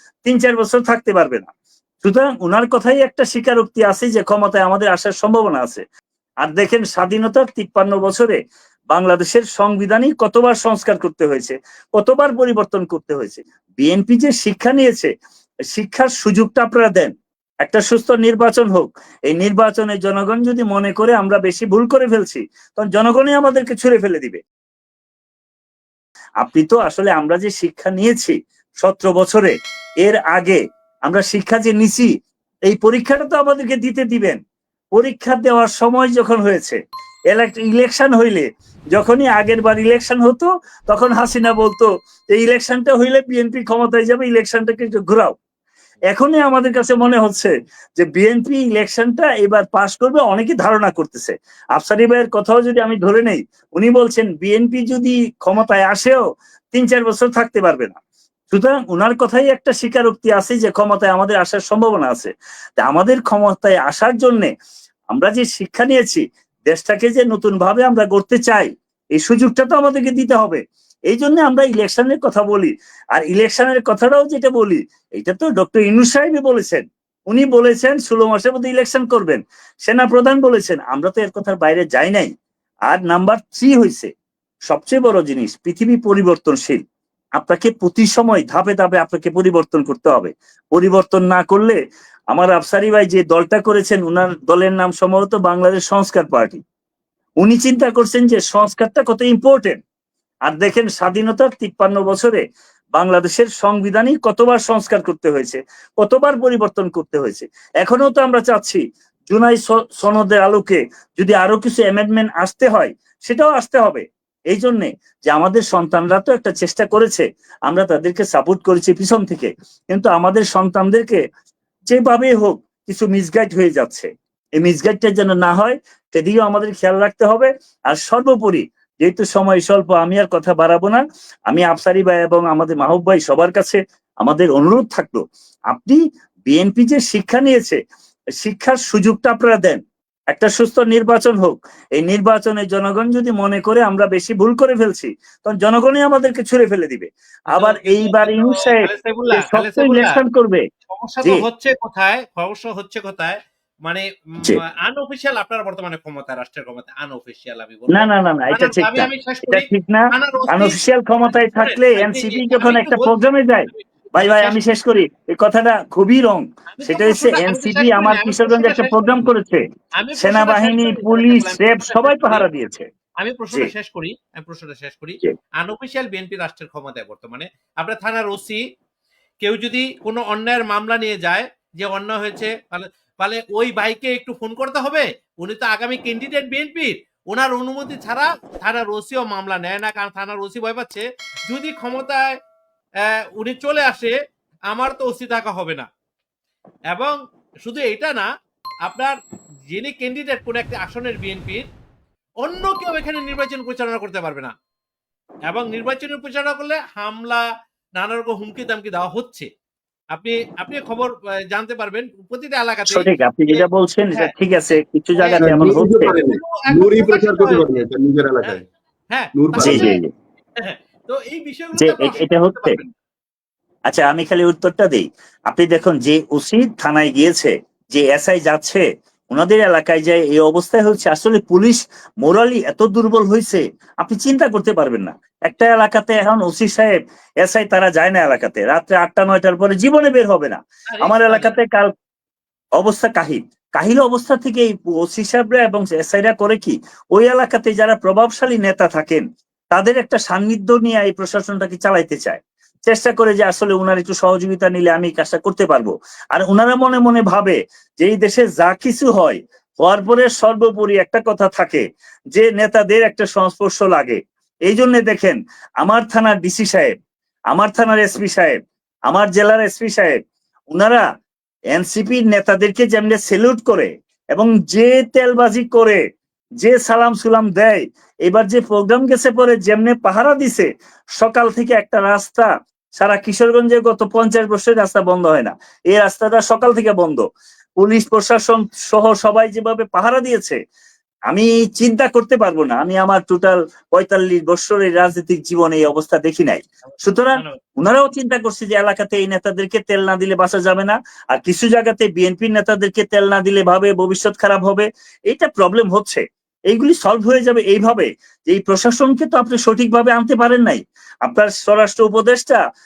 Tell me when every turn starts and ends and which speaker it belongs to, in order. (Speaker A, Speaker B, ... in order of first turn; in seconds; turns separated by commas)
Speaker A: 0.3-1.5, Speaker A: 2.0-5.8, Speaker A: 6.4-8.4, Speaker A: 8.9-15.1, Speaker A: 15.7-17.1, Speaker A: 17.6-24.4, Speaker A: 26.4-29.5, Speaker A: 30.0-32.1, Speaker A: 32.7-34.4, Speaker A: 35.0-36.8, Speaker A: 37.3-45.4, Speaker A: 46.1-56.2, Speaker A: 56.7-58.0, Speaker A: 58.5-62.3, Speaker A: 62.8-64.5, Speaker A: 65.1-82.3, Speaker A: 82.9-84.1, Speaker A: 84.7-86.8, Speaker A: 87.4-91.8, Speaker A: 92.3-96.6, Speaker A: 97.4-99.8, Speaker A: 100.5-102.4, Speaker A: 103.0-121.2, Speaker A: 121.9-124.1, Speaker A: 124.6-135.2, Speaker A: 135.7-137.8, Speaker A: 138.4-139.8, Speaker A: 140.3-150.6, Speaker B: 147.5-150.2, Speaker B: 150.9-163.1, Speaker A: 157.9-169.6, Speaker B: 163.7-164.6, Speaker B: 166.7-169.3, Speaker B: 170.0-172.5, Speaker A: 170.2-172.8, Speaker B: 173.2-178.6, Speaker B: 179.4-192.3, Speaker B: 193.1-194.1, Speaker B: 194.7-195.9, Speaker B: 196.9-198.3, Speaker B: 198.9-199.1, Speaker B: 199.7-201.7, Speaker B: 202.4-204.5, Speaker B: 205.5-207.4, Speaker B: 208.0-209.5, Speaker B: 210.1-214.3, Speaker A: 212.9-216.1, Speaker B: 215.2-217.8, Speaker C: 215.4-218.6, Speaker B: 219.1-220.0, Speaker C: 219.3-220.0, Speaker A: 219.6-220.1, Speaker B: 220.6-222.9, Speaker A: 221.8-222.8, Speaker A: 223.9-241.9, Speaker B: 240.9-241.6, Speaker A: 242.8-261.8, Speaker A: 262.3-266.9, Speaker A: 267.5-268.6, Speaker A: 269.1-270.2, Speaker A: 270.7-271.0, Speaker A: 271.7-276.0, Speaker A: 276.6-280.7, Speaker A: 281.2-287.2, Speaker A: 287.8-290.6, Speaker A: 291.3-312.6